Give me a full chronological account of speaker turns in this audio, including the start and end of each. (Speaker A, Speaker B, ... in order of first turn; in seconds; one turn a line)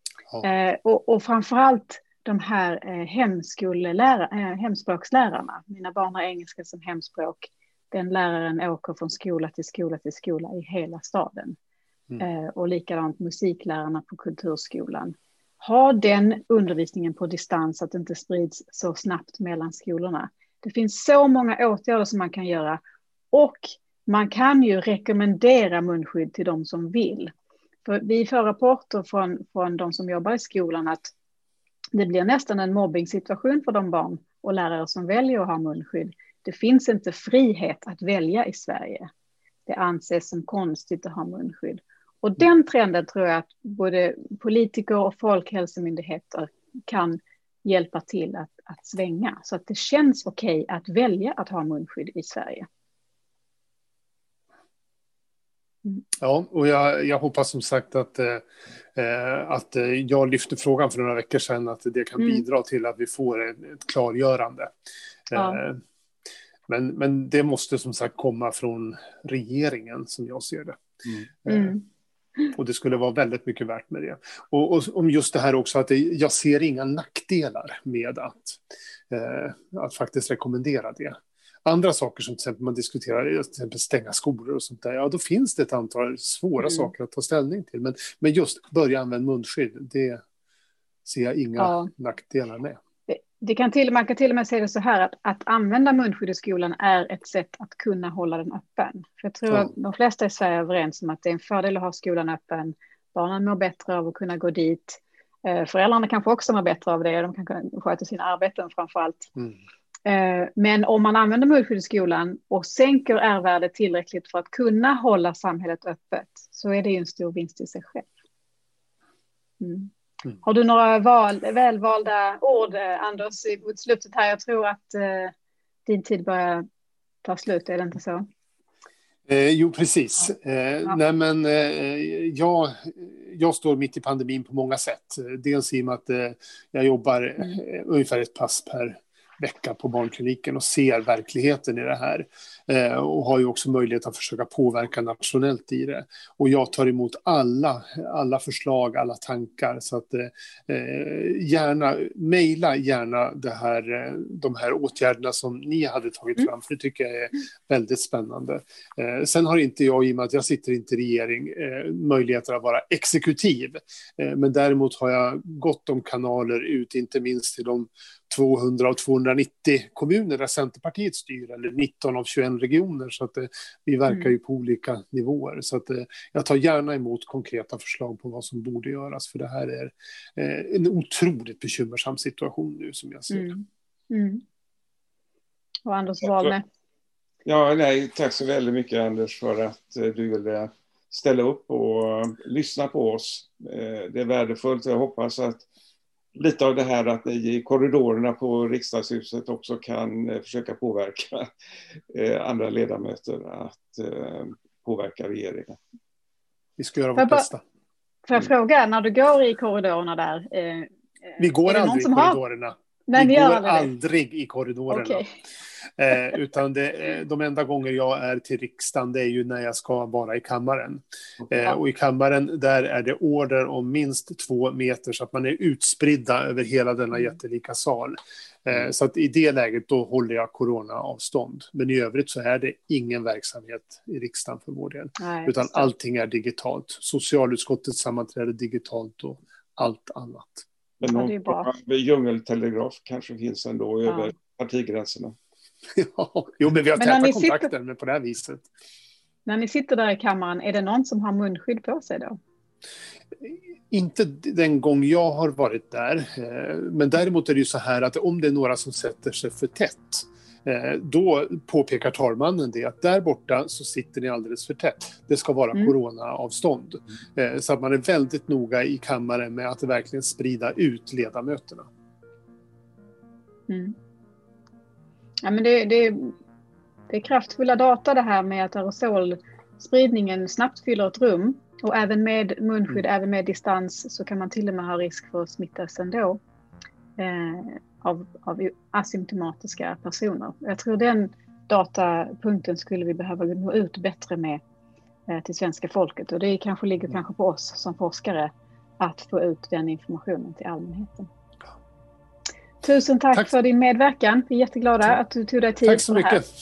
Speaker A: 0.4-11.6
Speaker A: 12.2-22.8
Speaker A: 23.3-27.3
Speaker A: 27.9-31.1
Speaker A: 31.9-39.1
Speaker A: 39.7-52.7
Speaker B: 56.2-58.4
Speaker B: 59.0-64.7
Speaker B: 65.3-65.8
Speaker A: 65.3-65.6
Speaker B: 66.7-70.8
Speaker B: 71.4-71.8
Speaker A: 71.5-71.8
Speaker B: 72.5-90.2
Speaker A: 86.6-86.9
Speaker B: 91.1-92.8
Speaker A: 91.6-91.9
Speaker A: 93.1-109.3
Speaker A: 110.1-118.1
Speaker A: 119.6-119.9
Speaker A: 120.4-125.3
Speaker A: 125.9-126.7
Speaker A: 127.2-128.3
Speaker B: 129.3-183.5
Speaker A: 183.3-184.4
Speaker A: 185.9-186.6
Speaker C: 186.2-186.5
Speaker C: 187.4-195.7
Speaker C: 196.3-201.5
Speaker C: 202.1-205.8
Speaker B: 206.8-207.6
Speaker A: 207.2-207.5
Speaker A: 208.3-212.4
Speaker B: 211.4-215.2
Speaker A: 213.1-213.9
Speaker A: 214.9-215.3
Speaker B: 216.0-240.7
Speaker A: 235.2-235.9
Speaker C: 241.0-245.4
Speaker A: 241.1-241.7
Speaker B: 245.9-248.7
Speaker A: 247.0-247.7
Speaker A: 249.5-252.4
Speaker B: 253.4-271.9
Speaker A: 273.7-274.0
Speaker A: 275.4-276.3
Speaker A: 277.1-286.4
Speaker A: 287.2-294.6
Speaker A: 295.3-301.3
Speaker A: 302.8-306.4
Speaker B: 305.8-306.5